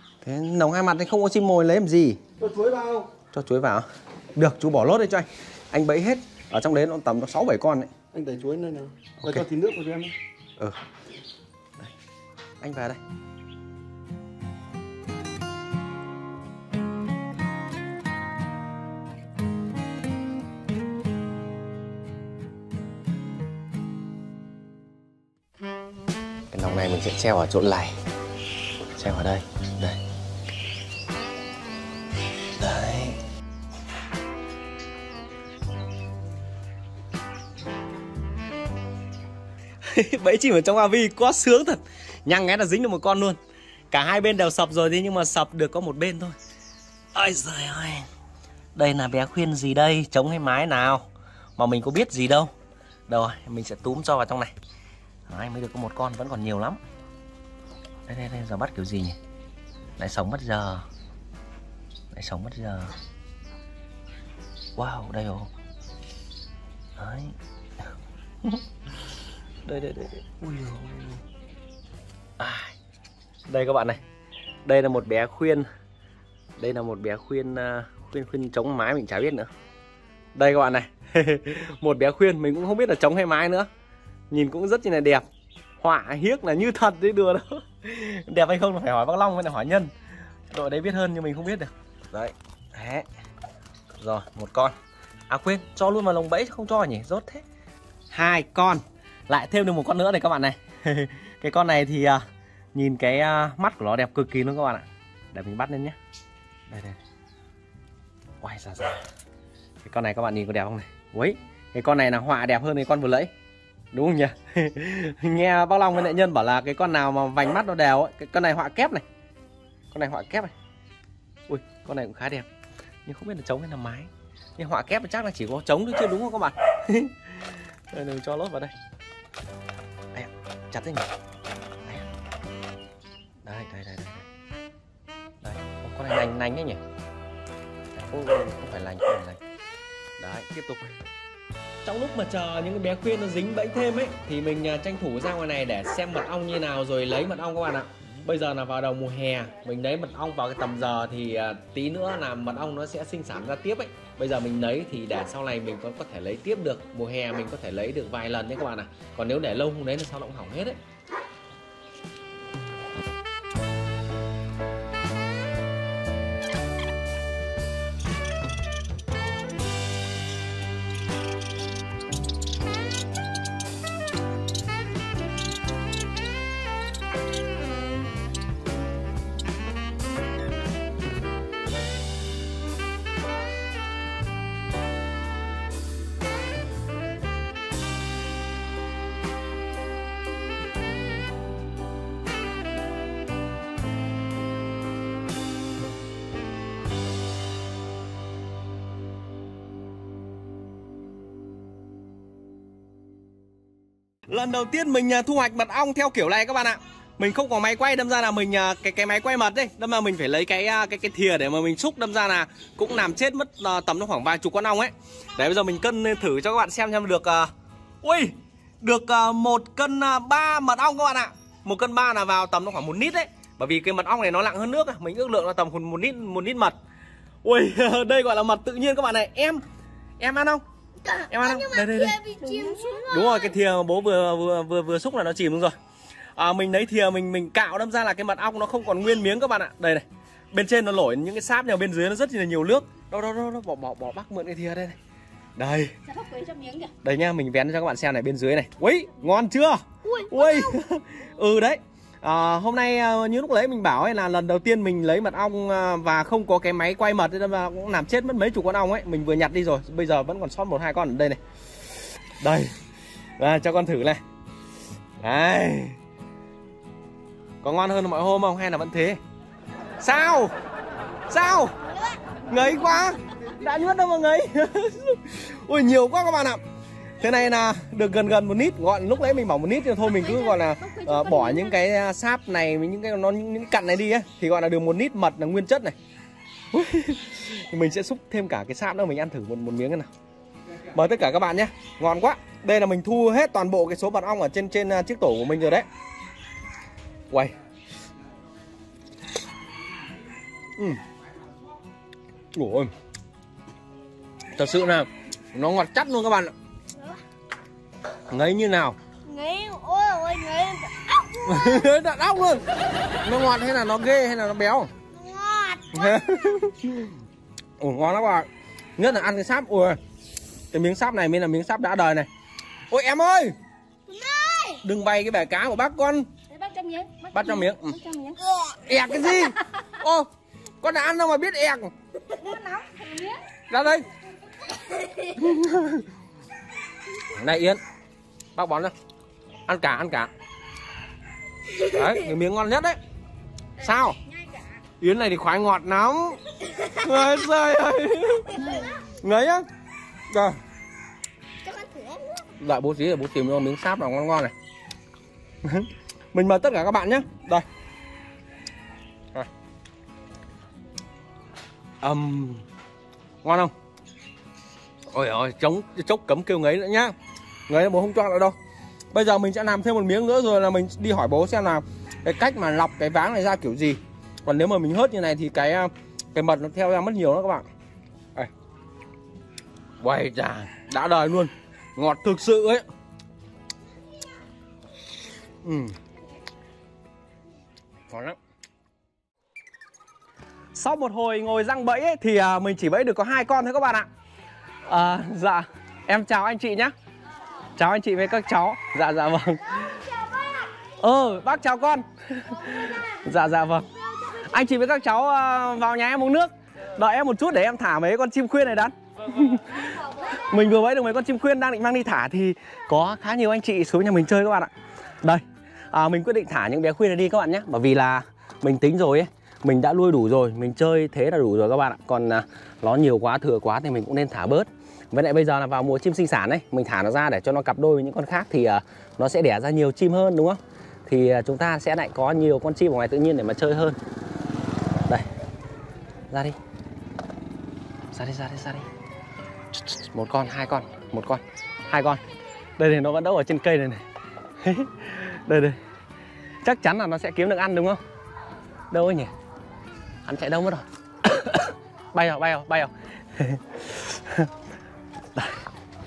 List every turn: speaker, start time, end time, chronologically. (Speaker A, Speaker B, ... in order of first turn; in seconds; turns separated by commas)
Speaker A: 0.2-2.2, Speaker B: 2.4-3.1, Speaker A: 3.3-7.9, Speaker B: 8.1-10.1, Speaker A: 12.6-13.0, Speaker A: 26.5-28.0, Speaker A: 28.9-30.0, Speaker A: 32.6-33.2, Speaker A: 39.8-43.4, Speaker A: 43.9-46.4, Speaker A: 47.1-48.0, Speaker A: 48.7-51.0, Speaker A: 51.6-52.5, Speaker A: 53.1-54.5, Speaker A: 55.3-56.8, Speaker A: 58.1-59.2, Speaker A: 60.0-60.8, Speaker A: 62.1-62.9, Speaker A: 64.8-65.5, Speaker A: 67.0-67.3, Speaker A: 69.6-71.2, Speaker A: 72.4-72.7, Speaker A: 73.5-74.0, Speaker A: 74.6-75.7, Speaker A: 76.6-79.5, Speaker A: 80.3-83.7, Speaker A: 84.3-85.2, Speaker A: 85.8-89.9, Speaker A: 90.5-93.0, Speaker A: 94.0-94.7, Speaker A: 95.3-97.4, Speaker A: 98.1-102.2, Speaker A: 102.7-106.0, Speaker A: 106.7-107.0, Speaker A: 108.4-109.0, Speaker A: 109.8-113.3, Speaker A: 113.9-119.0, Speaker A: 119.9-120.5, Speaker A: 121.5-122.5, Speaker A: 123.0-128.7, Speaker A: 130.1-131.1, Speaker A: 133.4-134.2, Speaker A: 135.4-136.8, Speaker A: 137.9-139.4, Speaker A: 140.2-140.9, Speaker A: 141.8-160.8, Speaker A: 204.3-217.5, Speaker A: 218.0-226.8, Speaker A: 227.4-229.6, Speaker A: 230.2-235.7, Speaker C: 232.2-233.0, Speaker A: 236.3-244.9, Speaker A: 245.6-246.0, Speaker D: 246.1-246.9, Speaker A: 246.9-261.4, Speaker A: 262.4-262.7, Speaker A: 263.4-264.2, Speaker A: 265.2-266.0, Speaker A: 267.6-269.2, Speaker A: 270.0-270.5, Speaker A: 271.3-271.7, Speaker A: 272.4-276.6, Speaker A: 277.2-285.9, Speaker A: 286.7-290.1, Speaker A: 290.9-295.9, Speaker A: 300.8-301.0, Speaker A: 302.5-302.9, Speaker A: 304.5-306.5, Speaker A: 308.3-309.0, Speaker C: 309.2-311.6, Speaker A: 311.4-312.6, Speaker A: 313.2-314.9, Speaker C: 315.1-316.1, Speaker A: 315.9-317.1, Speaker A: 317.8-320.0, Speaker A: 320.7-322.3, Speaker A: 322.9-323.5, Speaker C: 324.1-324.8, Speaker A: 324.8-326.3, Speaker D: 326.5-327.5, Speaker A: 327.3-328.0, Speaker D: 328.0-328.5, Speaker A: 328.7-330.3, Speaker A: 330.8-331.9, Speaker D: 332.3-333.4, Speaker C: 332.5-333.2, Speaker A: 333.7-334.0, Speaker A: 335.2-336.0, Speaker A: 337.2-337.8, Speaker A: 338.5-338.9, Speaker A: 339.7-340.3, Speaker A: 341.7-343.0, Speaker A: 343.8-344.2, Speaker A: 345.0-349.6, Speaker A: 350.3-350.6, Speaker D: 351.6-352.2, Speaker C: 351.6-352.2, Speaker A: 352.5-354.5, Speaker A: 355.6-357.6, Speaker A: 362.0-362.6, Speaker A: 363.4-363.7, Speaker A: 365.1-367.1, Speaker A: 367.7-368.5, Speaker A: 369.1-377.6, Speaker A: 380.0-382.8, Speaker A: 385.6-385.9, Speaker A: 388.1-388.4, Speaker A: 390.7-394.1, Speaker A: 394.9-396.9, Speaker A: 397.8-400.1, Speaker A: 401.0-414.7, Speaker A: 415.2-434.0, Speaker A: 436.3-436.6, Speaker A: 438.1-438.9, Speaker A: 439.9-442.2, Speaker A: 442.8-444.0, Speaker A: 444.6-445.8, Speaker A: 446.6-448.0, Speaker A: 448.9-449.3, Speaker A: 450.2-454.5